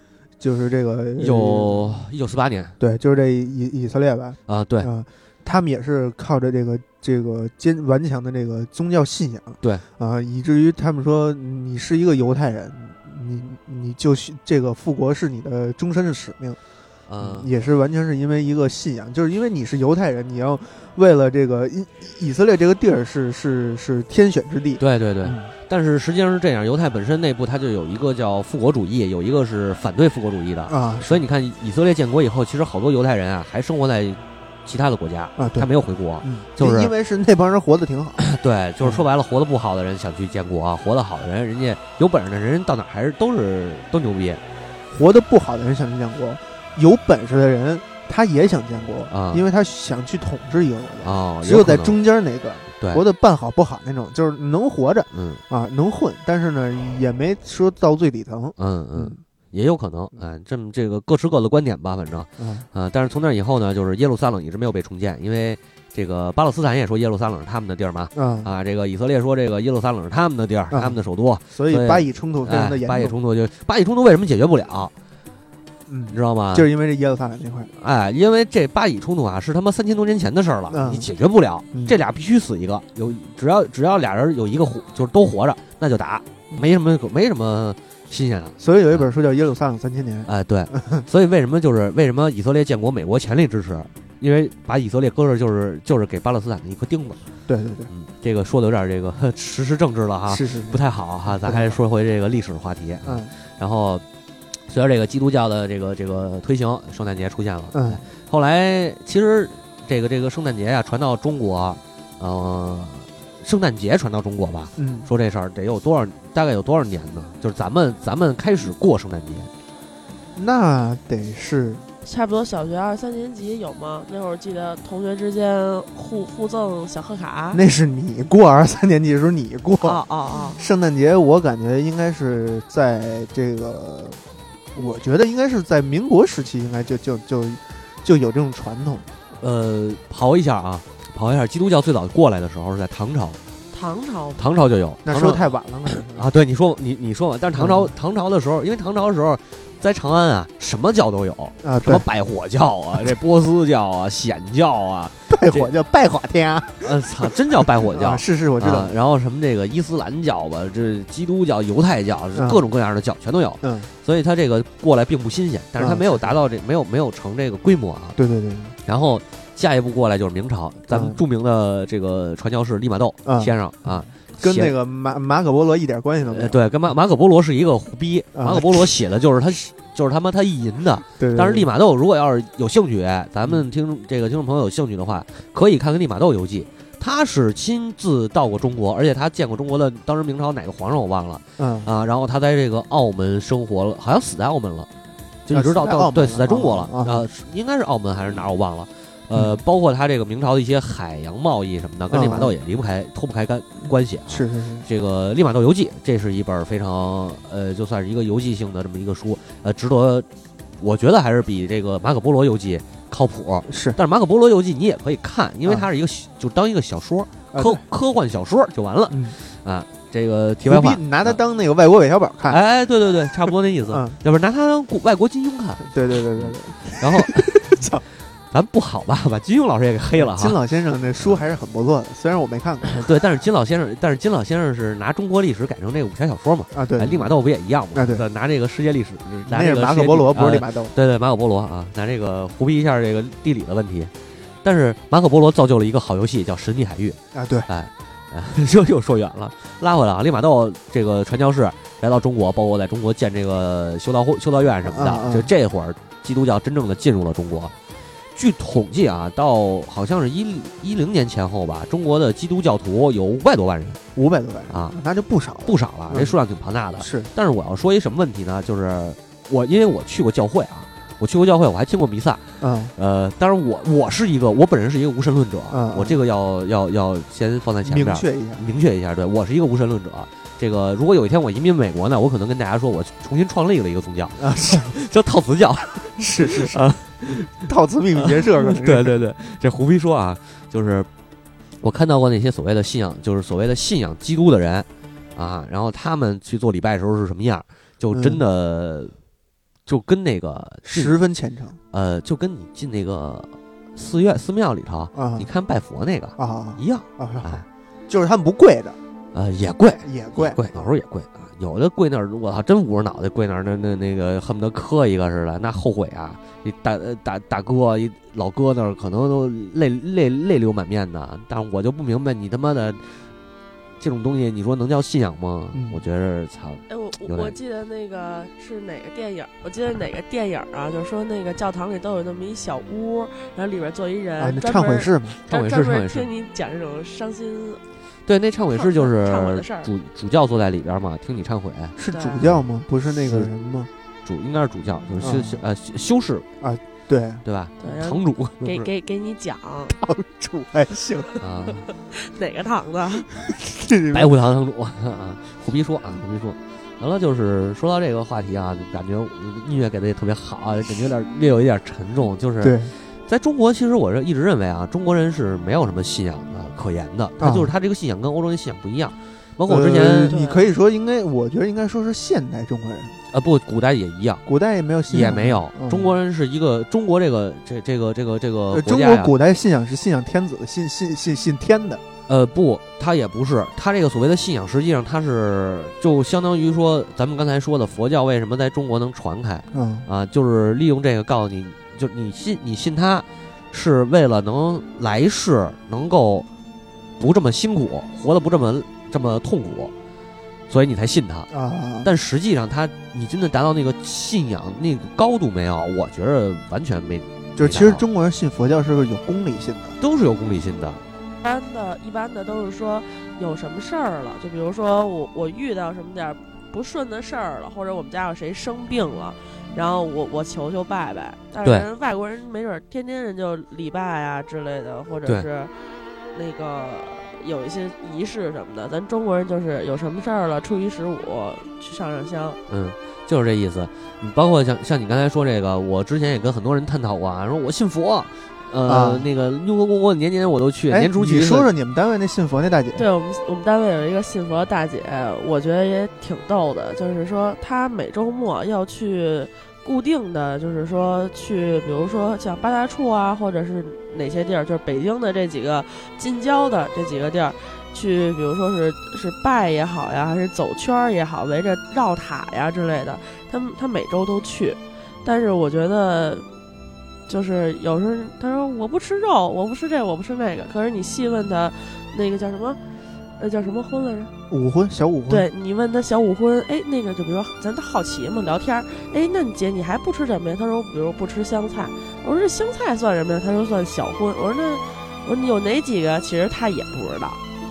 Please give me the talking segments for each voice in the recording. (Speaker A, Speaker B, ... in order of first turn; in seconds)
Speaker A: 0.4-2.0, 2.8-16.6, 17.2-25.5, 30.7-31.2, 35.4-35.7, 36.2-38.2, 44.9-59.2, 62.4-62.7, 68.1-68.5, 70.7-71.0, 71.5-73.1, 75.9-77.7, 80.7-81.1, 88.6-91.0, 97.5-97.9, 100.3-101.8, 103.0-103.3, 107.7-108.0, 114.8-115.1, 120.3-121.8, 127.5-130.0, 130.6-134.2, 134.7-139.1, 145.0-146.3, 147.5-147.9, 151.6-152.0, 155.3-158.9, 162.3-162.6, 163.6-163.9, 165.8-166.3, 168.2-168.7, 170.9-171.2, 173.2-176.6, 178.3-178.9, 181.2-181.7, 191.6-191.9, 195.5-197.3, 202.1-202.5, 204.3-204.8, 213.7-214.0, 217.5-217.8, 219.1-219.4, 220.7-222.6, 223.9-224.2, 225.8-228.0, 230.2-233.0, 236.7-237.3, 237.9-238.2, 239.5-240.9, 247.3-247.7, 254.8-255.5, 264.1-266.4, 267.0-267.3, 272.6-272.9, 275.7-276.2, 277.8-278.6, 284.4-284.9, 286.2-286.9, 287.5-289.1, 298.1-298.4, 300.8-301.8, 305.1-305.5, 306.4-309.0, 310.0-310.9, 325.7-326.0, 334.4-335.4, 342.0-343.9, 345.2-345.6, 346.6-347.4, 349.9-351.3, 353.5-354.3, 362.6-362.9, 367.4-367.7, 369.7-373.1, 374.4-376.1, 378.7-382.0, 389.7-390.1, 401.5-402.1, 407.6-409.9, 438.9-439.2, 440.9-443.1, 474.5-475.5
Speaker B: 1.2-2.8, 4.5-4.9, 17.1-17.5, 24.8-36.9, 38.2-44.4, 49.1-49.4, 51.0-52.0, 55.1-55.4, 58.6-74.9, 76.1-76.7, 77.7-89.0, 90.2-97.2, 97.9-104.0, 104.7-119.5, 139.4-143.4, 144.4-155.7, 156.8-168.2, 168.8-174.7, 176.3-194.9, 195.4-210.3, 210.8-221.4, 222.5-227.8, 228.5-230.6, 232.9-244.1, 244.6-257.7, 258.3-264.0, 264.7-264.9, 265.6-287.6, 288.2-291.1, 291.8-299.1, 299.9-301.1, 301.9-307.6, 309.3-323.2, 324.0-327.5, 335.5-336.3, 338.2-342.6, 344.2-346.5, 347.4-348.9, 351.4-351.9, 354.1-370.3, 373.3-374.4, 375.1-379.3, 382.3-396.5, 397.2-399.9, 400.7-401.5, 402.0-408.0, 410.0-411.0, 432.7-441.7
Speaker C: 122.0-127.6, 129.8-130.6, 143.7-144.4, 326.9-337.8, 338.7-339.9, 342.1-342.4, 347.8-349.9, 352.1-353.3, 370.3-370.7, 411.4-425.7, 426.3-432.6, 442.9-466.5, 467.3-472.8, 473.4-474.3, 475.3-487.4